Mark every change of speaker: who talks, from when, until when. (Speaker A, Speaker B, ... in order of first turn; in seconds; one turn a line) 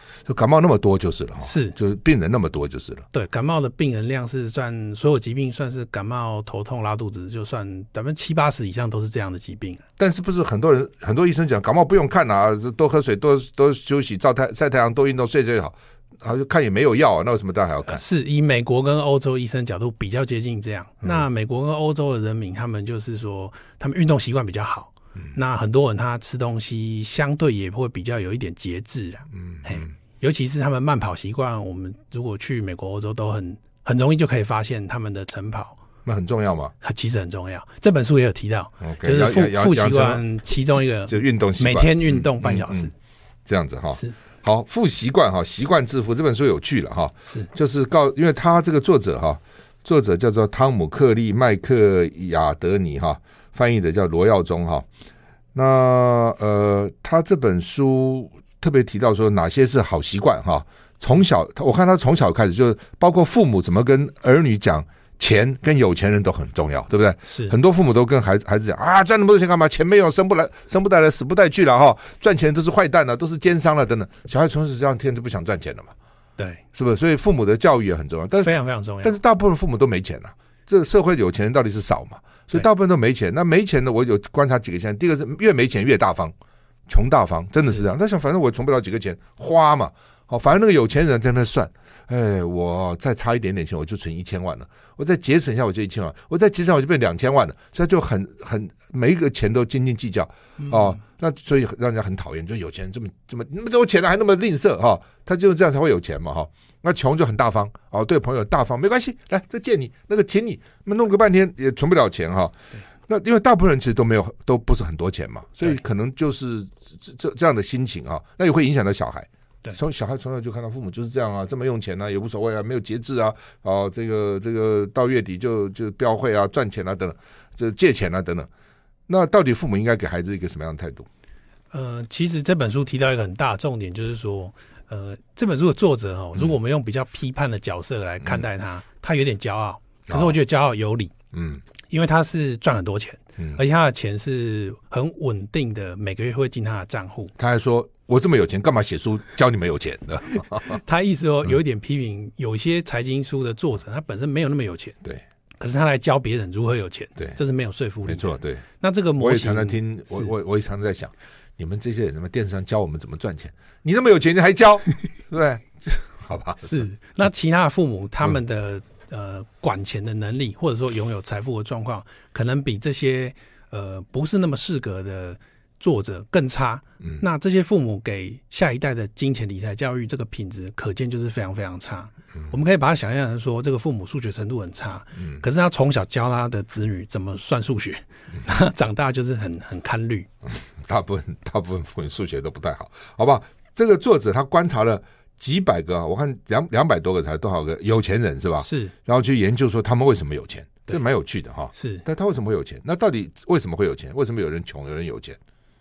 Speaker A: 0.2-3.1
Speaker B: 1.4-1.8
Speaker B: 3.1-9.8
Speaker A: 10.0-18.0
Speaker B: 17.9-35.8
Speaker A: 29.3-29.9
Speaker A: 36.0-36.7
Speaker B: 36.8-42.9
Speaker A: 38.8-40.2
Speaker A: 41.1-42.9
Speaker A: 43.5-54.9
Speaker A: 55.5-75.9
Speaker B: 67.3-67.5
Speaker B: 76.4-76.6
Speaker A: 76.7-78.5
Speaker B: 78.4-79.2
Speaker A: 79.0-86.3
Speaker A: 86.9-112.6
Speaker A: 113.1-128.5
Speaker A: 129.1-131.1
Speaker B: 131.7-141.1
Speaker A: 140.1-140.4
Speaker A: 141.3-141.6
Speaker B: 141.9-147.3
Speaker A: 147.4-150.8
Speaker B: 150.5-155.0
Speaker B: 155.6-160.3
Speaker A: 158.1-158.6
Speaker A: 159.2-166.8
Speaker B: 166.6-190.3
Speaker A: 190.5-205.4
Speaker B: 198.6-198.9
Speaker B: 201.7-202.0